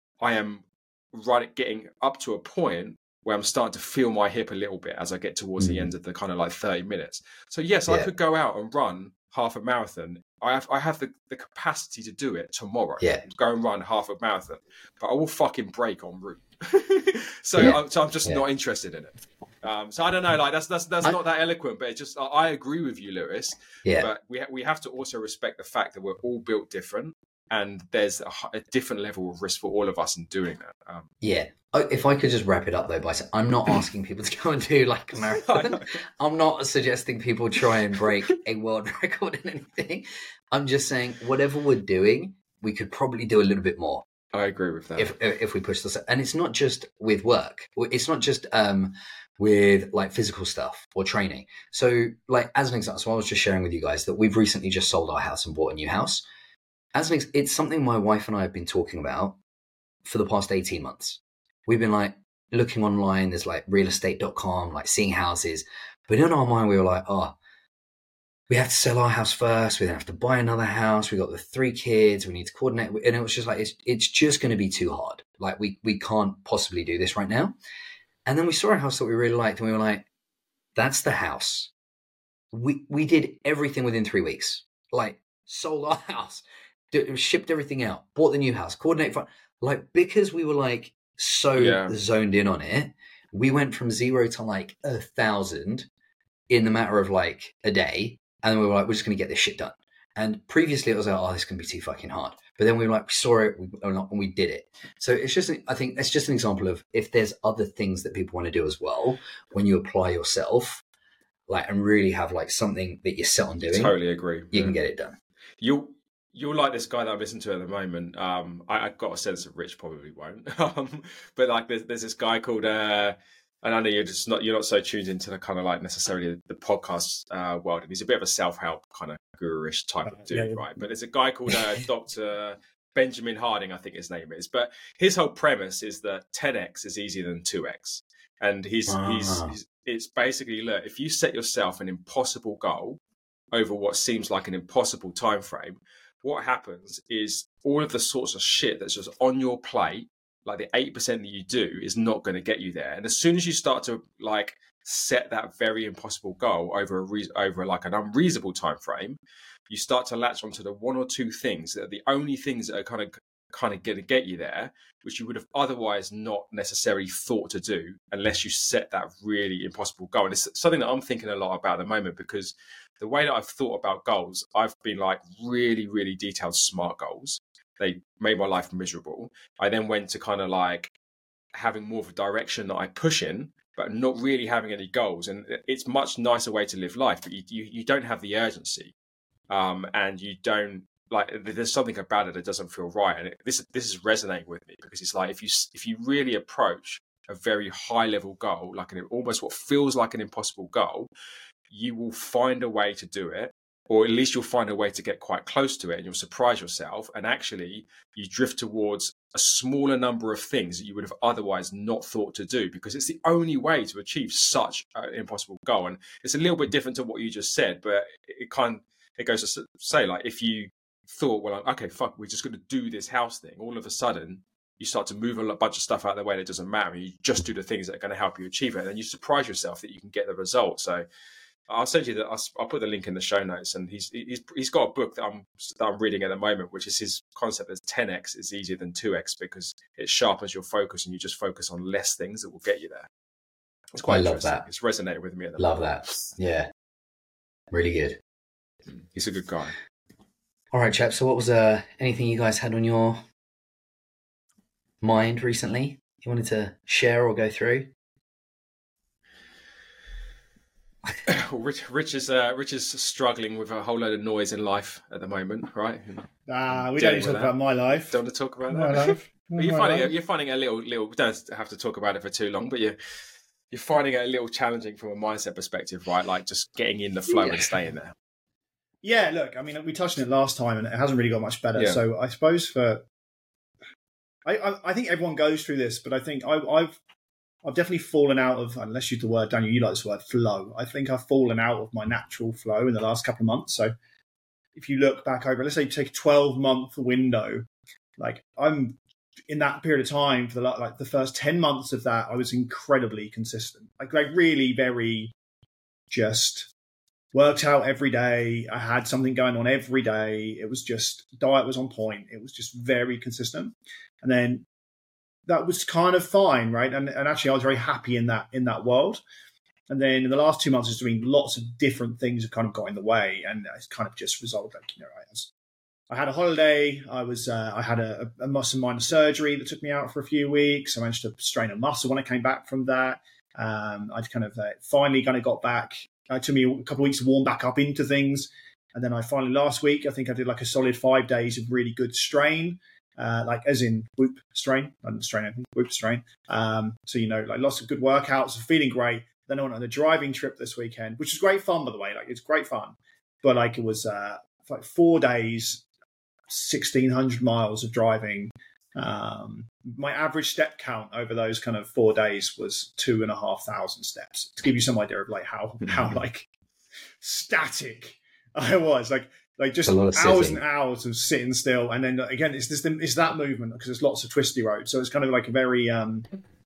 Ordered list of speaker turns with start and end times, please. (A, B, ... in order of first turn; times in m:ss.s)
0:00.2-0:31.1 A
0:05.6-0:05.9 B
0:17.6-0:18.4 B
0:31.2-0:44.0 B
0:35.4-0:35.9 A
0:44.3-0:45.1 A
0:45.0-0:56.2 B
0:56.9-0:59.4 B
1:00.0-1:07.4 B
1:08.5-1:17.6 B
1:18.2-1:20.0 B
1:20.7-1:21.7 B
1:22.5-1:35.9 B
1:31.6-1:31.9 A
1:36.5-1:50.8 B
1:51.5-1:54.0 B
1:53.6-1:54.7 A
1:54.5-1:55.2 B
1:55.6-2:23.0 A
2:18.9-2:19.5 B
2:23.5-3:00.9 A
3:01.5-3:08.9 A
3:09.5-3:21.1 A
3:21.7-3:51.0 A
3:51.7-4:03.1 A
4:03.9-4:06.2 A
4:04.0-4:04.6 B
4:05.6-4:06.7 B
4:07.7-4:08.2 B
4:08.9-4:09.7 A
4:10.7-4:13.2 B
4:15.0-4:17.9 B
4:21.2-4:33.0 A
4:26.5-4:28.2 C
4:28.7-4:30.1 C
4:33.7-4:38.1 A
4:37.4-4:37.8 C
4:39.0-4:43.0 C
4:44.4-4:47.0 C
4:47.6-4:53.9 C
4:54.8-4:57.6 C
4:58.2-4:59.0 C
4:59.5-5:05.3 C
5:06.1-5:06.7 C
5:07.3-5:14.6 C
5:15.5-5:19.2 C
5:19.9-5:25.5 C
5:26.1-5:55.8 C
5:56.5-6:06.5 C
6:07.2-6:16.3 C
6:09.8-6:10.6 B